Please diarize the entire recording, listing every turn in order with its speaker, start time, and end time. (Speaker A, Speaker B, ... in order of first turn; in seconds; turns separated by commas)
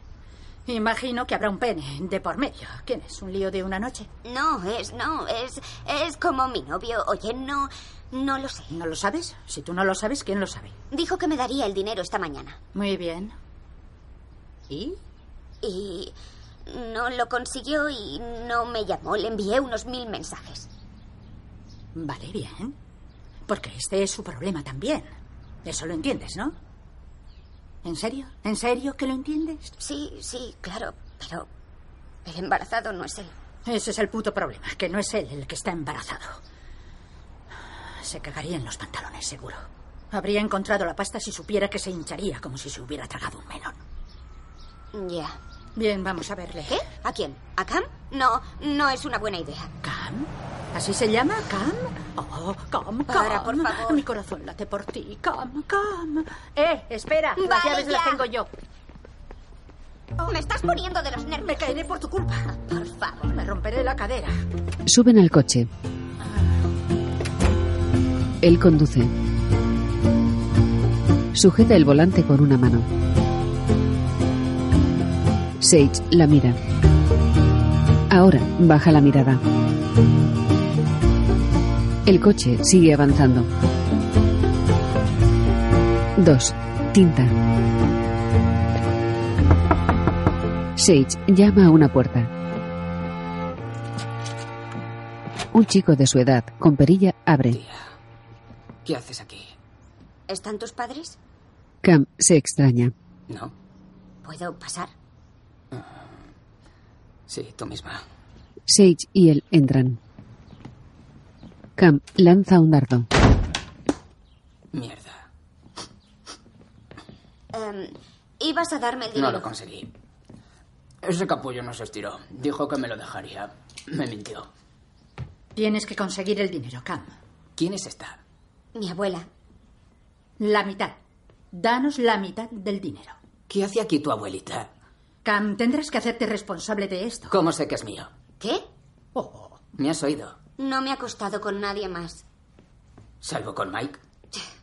Speaker A: 0.7-4.1, Speaker B: 4.2-8.7, Speaker A: 8.7-10.8, Speaker B: 10.9-12.6, Speaker A: 12.7-13.3, Speaker A: 14.7-15.0, Speaker B: 15.6-16.1, Speaker B: 16.7-20.7, Speaker A: 21.9-22.8, Speaker A: 23.5-25.1, Speaker A: 25.6-26.6, Speaker A: 27.8-29.7, Speaker B: 29.8-31.5, Speaker B: 32.2-33.3, Speaker A: 33.6-36.4, Speaker A: 37.9-43.8, Speaker B: 44.9-45.4, Speaker A: 45.8-46.8, Speaker B: 46.7-49.7, Speaker A: 49.8-58.5, Speaker B: 53.1-54.0, Speaker B: 57.4-58.2, Speaker B: 60.2-61.8, Speaker A: 61.4-62.5, Speaker B: 62.7-63.2, Speaker A: 63.2-64.4, Speaker C: 64.9-65.7, Speaker C: 68.4-69.1, Speaker C: 71.3-72.8, Speaker C: 75.6-76.6, Speaker C: 78.1-79.4, Speaker C: 82.0-83.5, Speaker C: 86.2-87.3, Speaker C: 90.8-92.3, Speaker C: 95.5-97.6, Speaker D: 97.5-97.8, Speaker D: 98.8-99.5, Speaker B: 100.3-101.2, Speaker C: 101.8-102.9, Speaker B: 104.2-104.9, Speaker D: 107.3-108.0, Speaker C: 108.7-110.0, Speaker C: 111.8-113.1, Speaker D: 114.7-115.2, Speaker B: 117.5-119.5, Speaker D: 119.1-119.9, Speaker D: 121.0-124.5, Speaker A: 125.5-127.1, Speaker D: 127.6-128.2, Speaker B: 128.7-129.3, Speaker A: 130.4-131.0, Speaker A: 131.5-133.2, Speaker D: 133.5-134.7, Speaker A: 135.2-137.3, Speaker D: 137.3-138.1, Speaker B: 138.4-138.7, Speaker A: 139.1-139.6, Speaker D: 139.8-140.3, Speaker B: 140.6-142.2, Speaker D: 143.2-144.0